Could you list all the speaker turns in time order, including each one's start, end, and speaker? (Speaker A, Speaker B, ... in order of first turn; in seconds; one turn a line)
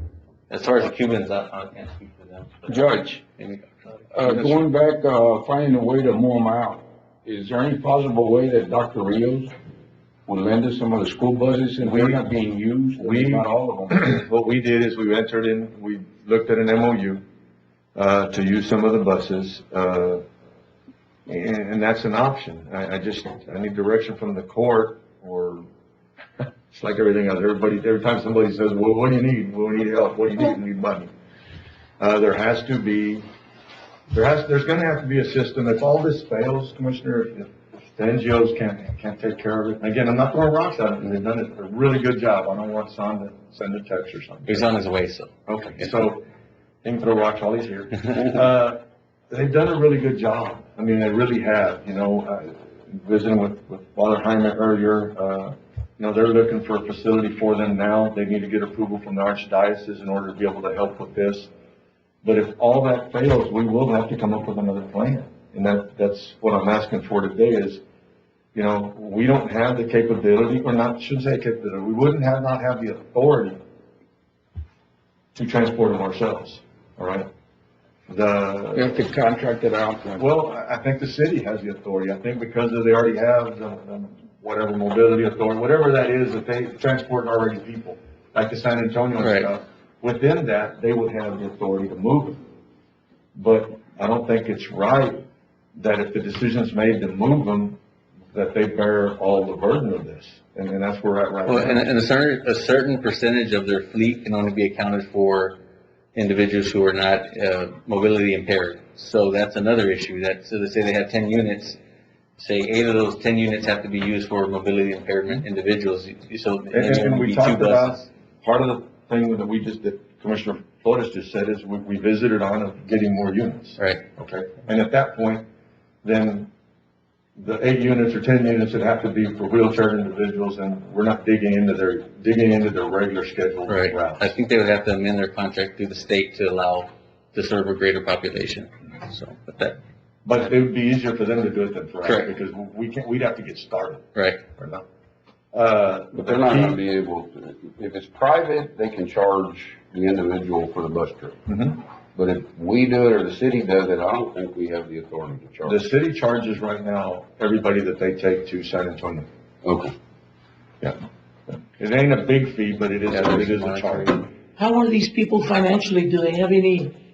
Speaker A: 0.5-2.8
Speaker B: 2.7-3.2
Speaker A: 3.4-4.6
Speaker B: 4.1-9.5
Speaker B: 10.3-14.0
Speaker C: 11.8-12.2
Speaker C: 13.0-17.2
Speaker C: 17.9-20.2
Speaker C: 21.3-25.6
Speaker C: 26.7-31.1
Speaker C: 32.0-33.2
Speaker C: 34.1-44.7
Speaker A: 44.5-45.9
Speaker C: 45.5-46.2
Speaker C: 46.8-61.5
Speaker C: 62.2-67.8
Speaker C: 68.5-73.6
Speaker C: 75.3-77.3
Speaker C: 78.1-79.0
Speaker B: 78.8-80.2
Speaker C: 80.2-92.4
Speaker A: 89.2-89.5
Speaker C: 93.3-95.2
Speaker C: 95.8-97.8
Speaker C: 98.3-101.9
Speaker A: 101.5-105.6
Speaker A: 106.1-111.8
Speaker A: 112.4-118.1
Speaker C: 116.7-125.4
Speaker A: 123.8-124.0
Speaker C: 126.0-126.5
Speaker C: 127.4-134.2
Speaker A: 133.7-139.8
Speaker C: 140.2-144.8
Speaker A: 142.0-142.3
Speaker A: 144.1-144.4
Speaker C: 145.5-146.8
Speaker D: 146.1-151.4
Speaker C: 151.5-151.8
Speaker D: 152.1-155.8
Speaker C: 155.7-159.3
Speaker D: 159.6-159.9
Speaker C: 161.8-164.2
Speaker A: 163.1-164.3
Speaker E: 164.6-166.9